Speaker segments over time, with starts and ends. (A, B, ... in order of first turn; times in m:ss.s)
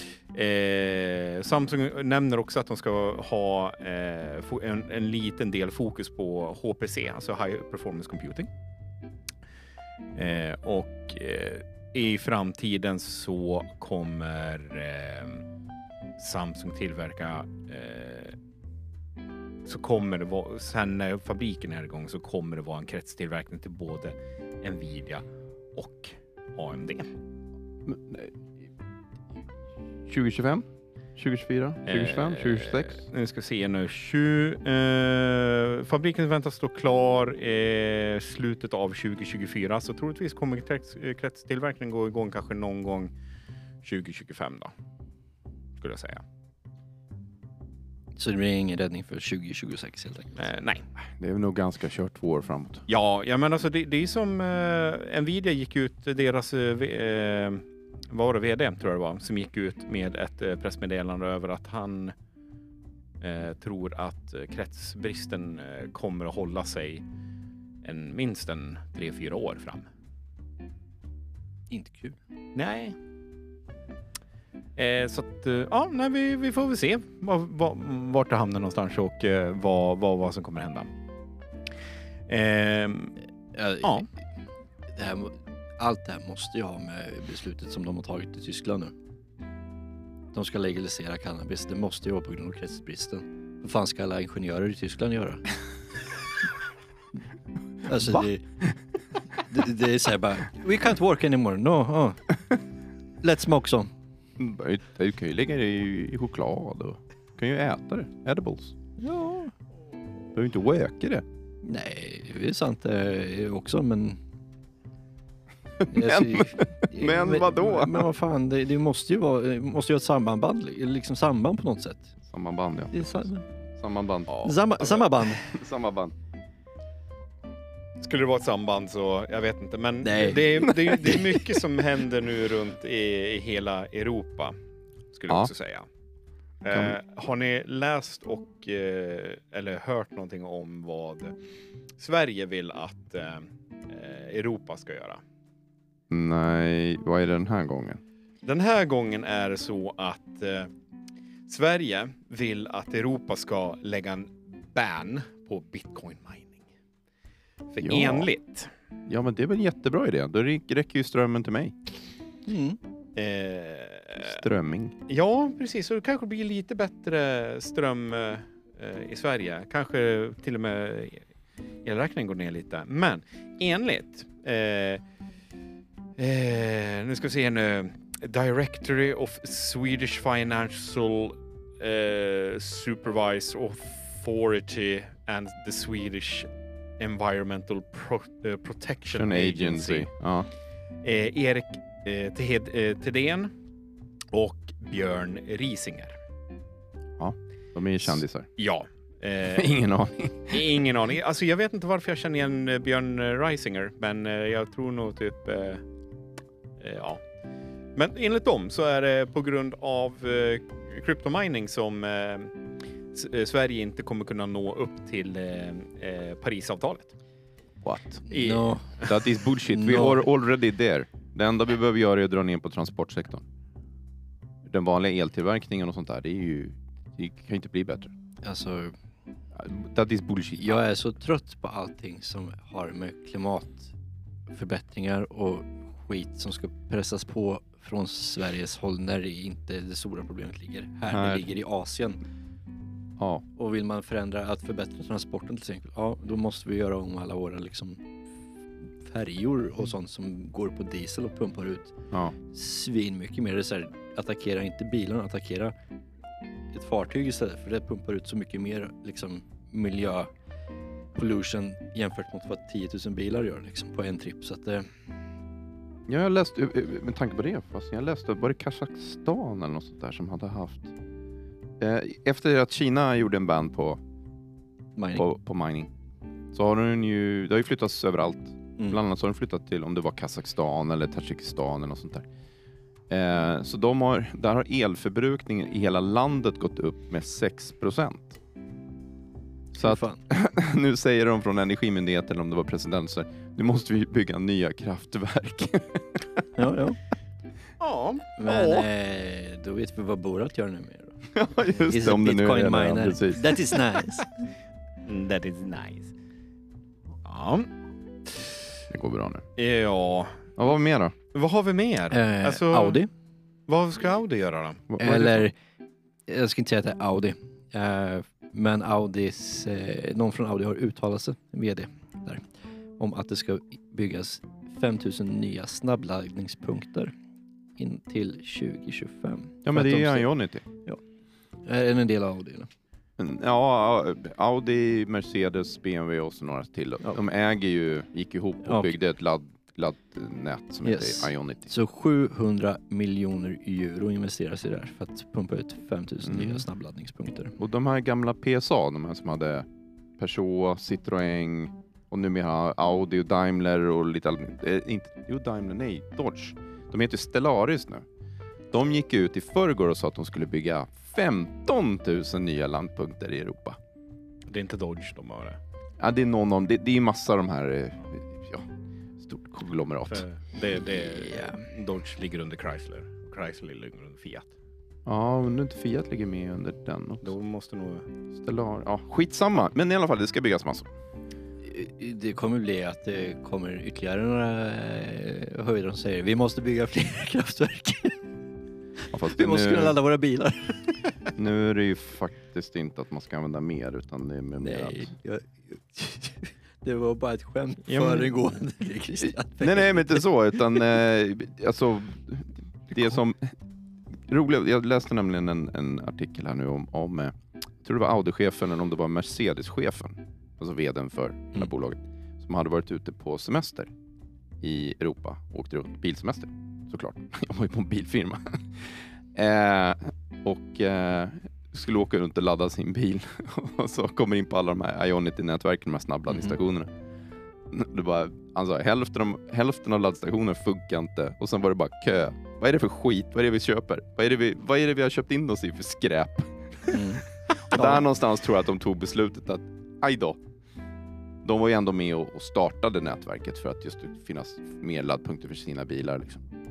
0:00.3-0:08.5 A
0:10.1-0:15.4 A
0:16.2-0:18.4 A
0:19.6-0:25.2 A
0:25.8-0:27.1 A
0:27.8-0:28.4 B
0:30.0-0:33.0 B
0:31.9-0:43.1 A
0:43.8-0:44.7 A
0:45.8-0:46.2 A
0:48.2-0:50.5 C
0:50.4-0:50.8 A
0:51.0-0:52.9 B
0:52.9-1:02.1 A
1:03.2-1:07.0 A
1:07.8-1:09.9 A
1:11.7-1:12.2 C
1:12.5-1:12.9 A
1:14.8-1:20.9 A
1:22.3-1:23.2 A
1:23.5-1:24.0 C
1:23.8-1:24.1 A
1:24.9-1:28.9 C
1:30.3-1:35.4 C
1:37.8-1:38.4 C
1:38.0-1:38.3 B
1:39.4-1:42.2 C
1:43.2-1:43.9 C
1:44.4-1:48.8 B
1:49.0-1:49.5 C
1:50.3-1:51.2 B
1:51.6-1:54.2 C
1:55.8-1:58.1 B
1:55.9-2:02.1 C
2:02.2-2:06.1 B
2:02.9-2:03.4 C
2:04.3-2:04.6 A
2:04.4-2:05.5 C
2:08.0-2:14.5 A
2:10.0-2:11.1 C
2:10.6-2:11.6 B
2:15.1-2:15.9 A
2:16.6-2:21.4 A
2:16.7-2:17.0 B
2:22.0-2:25.2 A
2:26.1-2:28.0 B
2:28.4-2:30.7 A
2:31.5-2:36.6 A
2:37.7-2:38.7 A
2:37.8-2:38.3 B
2:39.1-2:41.8 B
2:42.5-2:42.8 C
2:43.1-2:44.4 A
2:44.2-2:45.0 B
2:45.1-2:51.2 A
2:51.8-2:55.0 A
2:56.2-3:10.1 A
3:09.1-3:10.5 B
3:11.0-3:13.5 A
3:14.3-3:16.2 A
3:17.2-3:18.5 B
3:18.1-3:19.8 A
3:19.4-3:20.7 B
3:20.5-3:25.8 A
3:26.8-3:27.2 A
3:27.9-3:32.6 A
3:33.1-3:37.1 A
3:37.8-3:38.3 B
3:38.3-3:39.0 C
3:38.3-3:39.1 A
3:39.0-3:43.4 B
3:39.7-3:40.2 C
3:44.7-3:48.1 B
3:48.4-3:49.0 C
3:49.6-3:50.8 B
3:50.6-3:53.9 C
3:54.5-4:02.2 C
4:01.1-4:01.5 B
4:03.2-4:03.4 B
4:03.6-4:08.0 C
4:09.0-4:15.7 C
4:16.7-4:20.3 C
4:21.1-4:24.9 C
4:26.1-4:30.9 B
4:31.8-4:34.0 B
4:35.0-4:35.2 C
4:35.2-4:35.9 B
4:36.5-4:42.3 B
4:43.1-4:48.4 B
4:49.7-4:56.4 B
4:49.8-4:50.2 C
4:56.6-4:57.0 C
4:57.8-4:58.9 A
4:58.4-5:04.5 C
5:01.3-5:03.8 B
5:05.0-5:06.1 A
5:07.2-5:07.7 A
5:08.2-5:08.5 A
5:08.9-5:09.4 B
5:09.6-5:10.6 A
5:10.6-5:11.2 B
5:11.3-5:13.0 A
5:12.1-5:13.1 C
5:13.7-5:14.9 A
5:14.9-5:15.5 B
5:15.0-5:15.5 C
5:16.3-5:22.4 C
5:23.0-5:27.1 C
5:27.8-5:30.3 C
5:29.6-5:30.6 B
5:31.6-5:32.7 C
5:33.2-5:41.7 B
5:38.6-5:38.9 C
5:40.8-5:47.6 C
5:46.2-5:46.6 B
5:47.6-5:49.7 B
5:50.2-5:58.0 B
5:58.7-6:03.8 B
6:04.5-6:05.6 A
6:06.0-6:10.2 B
6:10.1-6:14.5 A
6:11.1-6:11.6 C
6:15.1-6:17.3 B
6:17.2-6:18.1 A
6:18.3-6:20.9 B
6:21.6-6:28.2 C
6:29.1-6:30.0 B
6:29.1-6:30.9 C
6:31.4-6:35.1 B
6:34.6-6:40.3 C
6:37.9-6:38.3 A
6:39.6-6:43.6 B
6:44.1-6:53.9 B
6:54.6-7:06.9 B
7:07.7-7:17.0 B
7:16.9-7:18.1 C
7:17.7-7:20.4 B
7:21.4-7:26.4 B